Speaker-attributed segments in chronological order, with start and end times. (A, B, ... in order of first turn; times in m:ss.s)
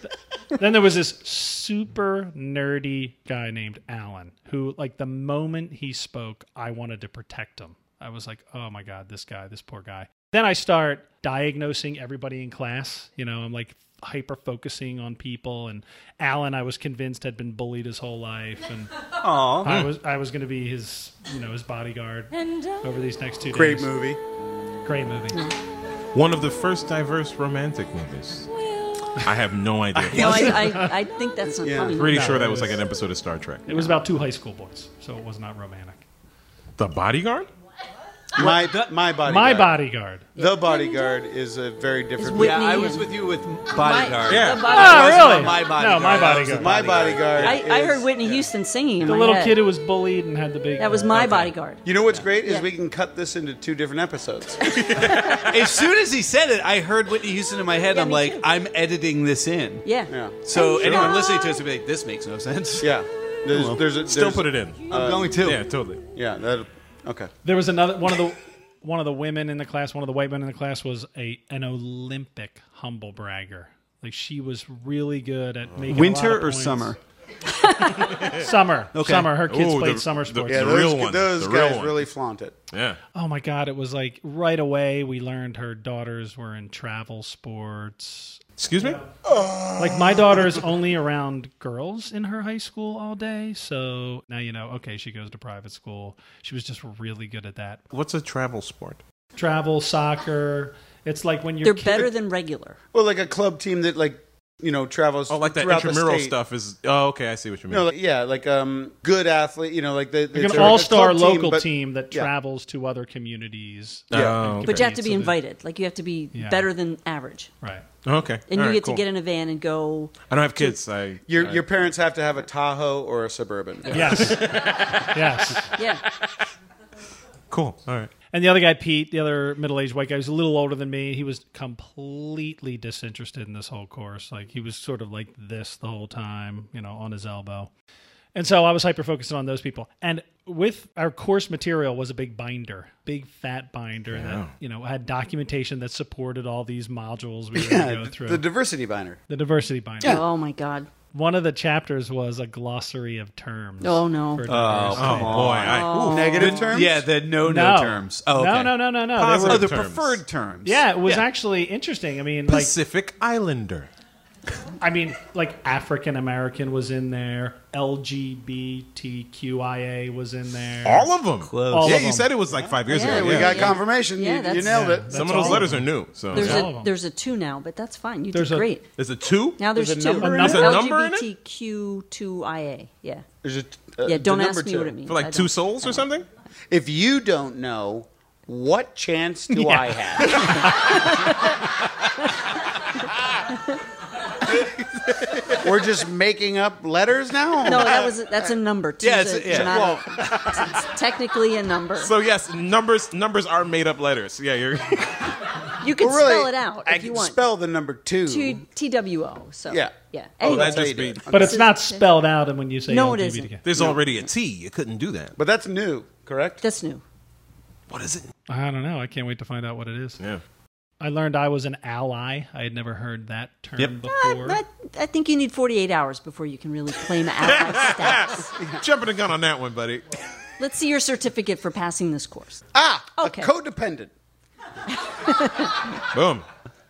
0:00.6-0:18.9 A
0:19.2-0:19.8 B
0:19.6-0:23.9 A
0:23.5-0:24.2 C
0:24.8-0:25.5 A
0:26.1-0:28.5 D
0:29.1-0:30.8 D
0:30.1-0:31.0 A
0:30.1-0:32.4 E
0:31.6-0:32.0 C
0:31.9-0:33.7 D
0:32.0-0:32.8 A
0:33.7-0:36.0 A
0:36.8-0:37.5 D
0:38.4-0:39.8 C
0:38.4-0:38.9 B
0:39.2-0:40.3 A
0:40.4-0:41.1 E
0:40.4-0:42.6 C
0:42.2-0:43.1 E
0:42.3-0:47.6 B
0:43.7-0:45.6 E
0:44.3-0:44.8 D
0:44.6-0:46.8 A
0:46.5-0:48.5 C
0:47.4-0:49.6 E
0:49.0-0:51.5 A
0:50.8-0:51.8 E
0:51.8-0:54.7 C
0:54.6-0:55.5 E
0:55.0-0:55.4 D
0:55.5-0:59.9 B
0:57.9-0:58.4 E
0:59.8-1:01.5 E
1:00.1-1:00.4 C
1:00.4-1:02.9 B
1:00.8-1:01.1 D
1:02.8-1:05.5 C
1:03.5-1:03.9 B
1:04.0-1:06.0 D
1:04.9-1:05.6 B
1:06.1-1:07.3 C
1:07.4-1:17.0 A
1:15.9-1:17.0 B
1:17.6-1:18.0 E
1:18.0-1:20.8 A
1:18.9-1:19.4 B
1:19.5-1:22.0 D
1:20.5-1:22.6 C
1:22.7-1:23.0 D
1:23.1-1:29.1 A
1:28.6-1:30.6 D
1:29.8-1:37.8 A
1:37.9-1:39.0 D
1:39.4-1:42.1 A
1:41.6-1:42.8 E
1:42.9-1:46.4 C
1:45.3-1:47.9 D
1:47.7-1:52.3 C
1:50.3-1:55.4 A
1:54.1-1:54.9 D
1:54.1-1:54.4 C
1:54.6-1:57.5 E
1:56.3-1:56.7 A
1:58.0-1:59.0 D
1:58.5-2:00.2 E
2:00.2-2:01.7 D
2:01.3-2:04.4 C
2:03.9-2:05.7 A
2:04.2-2:04.9 D
2:05.7-2:06.0 E
2:07.5-2:08.1 D
2:08.3-2:17.7 A
2:18.4-2:28.4 A
2:24.1-2:24.5 D
2:27.5-2:29.2 C
2:29.3-2:30.2 A
2:30.0-2:30.9 E
2:31.1-2:35.7 A
2:33.8-2:34.4 E
2:34.4-2:41.2 B
2:35.0-2:36.6 D
2:35.6-2:36.7 E
2:36.0-2:37.1 C
2:37.4-2:39.8 A
2:39.1-2:40.2 D
2:40.6-2:42.8 A
2:42.5-2:43.9 D
2:44.8-2:51.1 A
2:50.8-2:53.8 D
2:51.4-2:52.1 B
2:51.7-2:52.4 A
2:52.9-2:55.5 E
2:52.9-2:55.6 C
2:54.6-2:56.9 A
2:55.1-2:56.7 D
2:56.3-2:58.9 E
2:58.3-2:58.7 A
2:59.0-2:59.6 D
2:59.6-3:03.2 E
2:59.8-3:00.8 C
3:00.2-3:00.8 A
3:00.4-3:01.2 D
3:03.4-3:05.0 C
3:04.0-3:06.1 E
3:05.1-3:06.2 D
3:06.7-3:10.6 C
3:09.5-3:11.0 A
3:10.4-3:11.5 E
3:15.1-3:15.6 D
3:15.6-3:18.5 C
3:17.6-3:22.1 E
3:19.0-3:19.8 B
3:19.5-3:20.7 C
3:22.0-3:25.3 D
3:25.8-3:27.4 E
3:26.0-3:28.6 C
3:28.3-3:32.0 E
3:29.7-3:31.6 C
3:30.4-3:31.2 D
3:31.3-3:33.6 A
3:32.9-3:33.5 E
3:33.6-3:35.4 D
3:35.4-3:36.6 C
3:36.6-3:37.0 E
3:37.9-3:38.3 D
3:38.5-3:40.2 A
3:41.0-3:44.6 A
3:44.1-3:48.5 E
3:47.6-3:50.0 D
3:48.6-3:48.8 C
3:50.6-3:52.6 E
3:52.7-3:54.1 C
3:53.2-3:53.5 E
3:54.9-3:55.9 E
3:56.1-3:56.4 D